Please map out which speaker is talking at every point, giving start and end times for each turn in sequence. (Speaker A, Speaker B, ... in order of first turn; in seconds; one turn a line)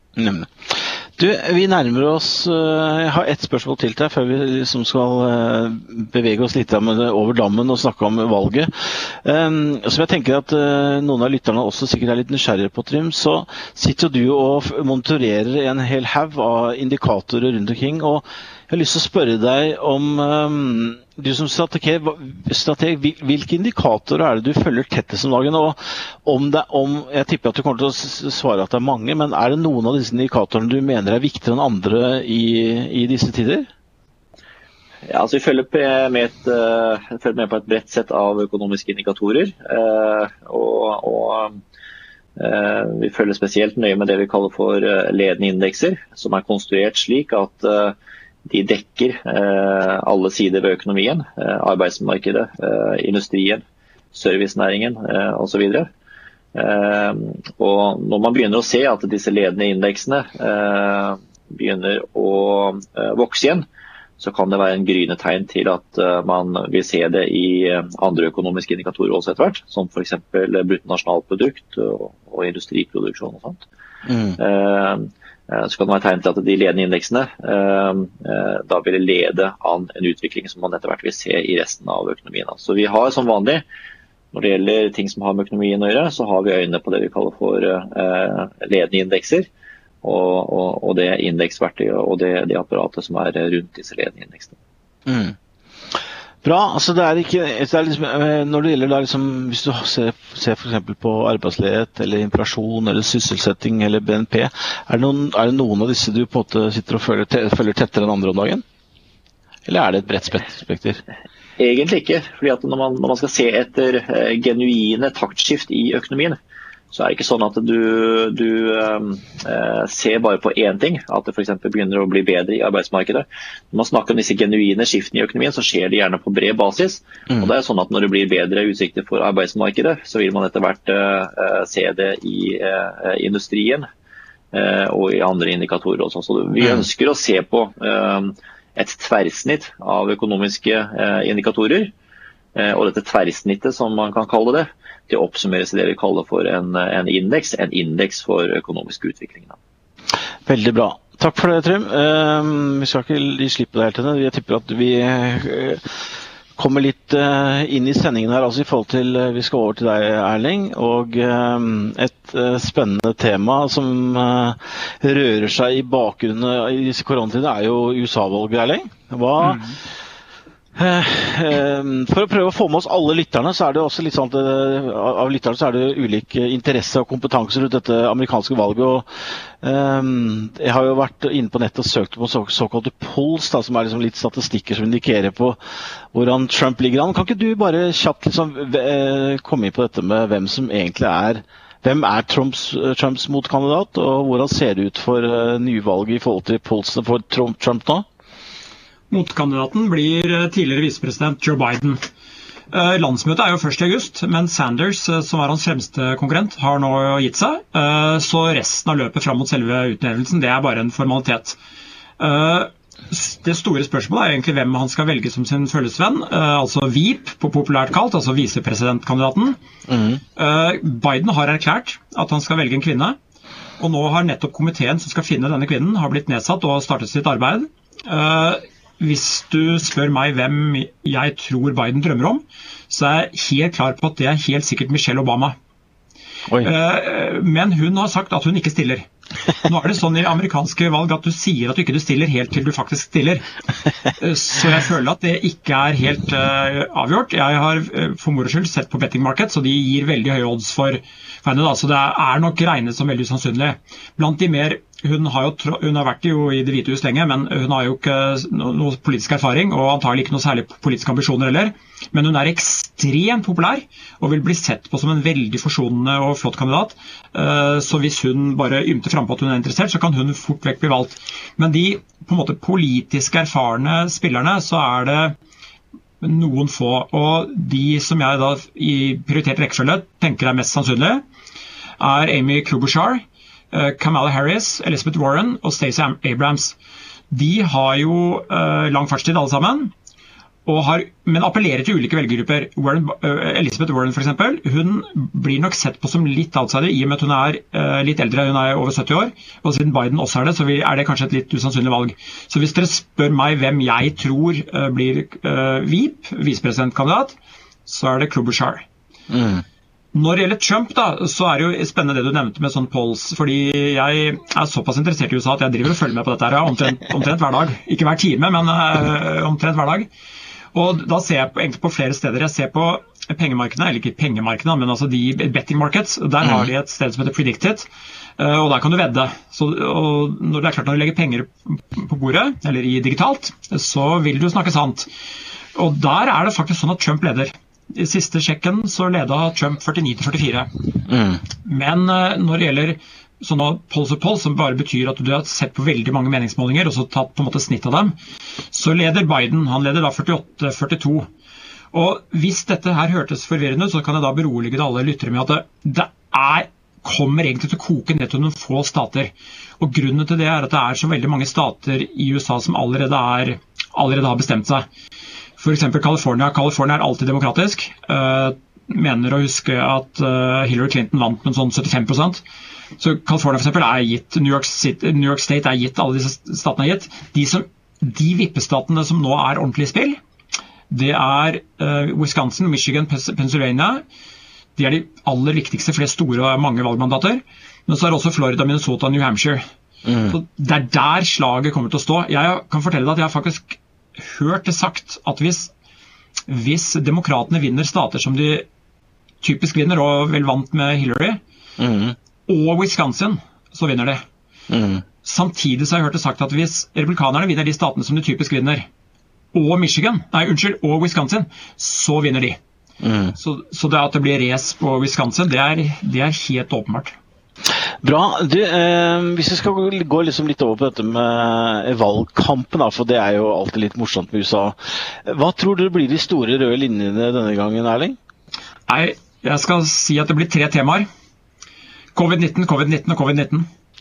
Speaker A: 0.2-33.7
Speaker B: 35.1-41.6
Speaker B: 42.4-55.9
Speaker B: 56.5-63.6
Speaker B: 64.2-73.6
Speaker A: 74.1-74.4
Speaker B: 74.4-83.6
Speaker B: 84.3-89.5
Speaker B: 90.0-94.6
Speaker A: 95.1-95.4
Speaker A: 96.4-108.6
Speaker A: 109.7-111.0
Speaker B: 111.6-116.4
Speaker B: 116.9-133.9
Speaker B: 134.5-141.9
Speaker B: 142.6-149.6
Speaker A: 150.5-155.8
Speaker A: 156.6-169.8
Speaker C: 169.4-169.8
Speaker A: 170.8-185.6
Speaker A: 186.1-198.1
Speaker C: 199.1-202.0
Speaker C: 202.7-211.6
Speaker C: 212.2-219.6
Speaker A: 219.9-220.2
Speaker C: 220.4-223.2
Speaker C: 223.8-235.6
Speaker C: 236.6-239.1
Speaker C: 239.6-243.4
Speaker C: 244.1-275.4
Speaker C: 276.2-281.2
Speaker C: 282.0-286.8
Speaker C: 287.3-289.9
Speaker C: 290.7-308.9
Speaker A: 309.3-309.6
Speaker C: 310.1-320.1
Speaker C: 320.7-335.1
Speaker A: 326.4-326.7
Speaker C: 335.8-340.7
Speaker A: 341.1-341.4
Speaker C: 341.6-348.2
Speaker C: 348.7-351.3
Speaker C: 351.9-364.9
Speaker C: 365.6-372.4
Speaker C: 373.0-380.2
Speaker C: 380.9-384.0
Speaker C: 384.8-389.6
Speaker A: 390.1-390.4
Speaker C: 390.3-395.7
Speaker C: 396.5-398.7
Speaker C: 399.4-401.4
Speaker A: 401.8-402.2
Speaker C: 402.5-404.2
Speaker A: 404.7-405.1
Speaker C: 405.2-408.9
Speaker C: 409.5-412.6
Speaker A: 413.0-413.4
Speaker C: 413.4-417.2
Speaker A: 417.7-428.2
Speaker C: 428.9-431.1
Speaker C: 432.1-433.7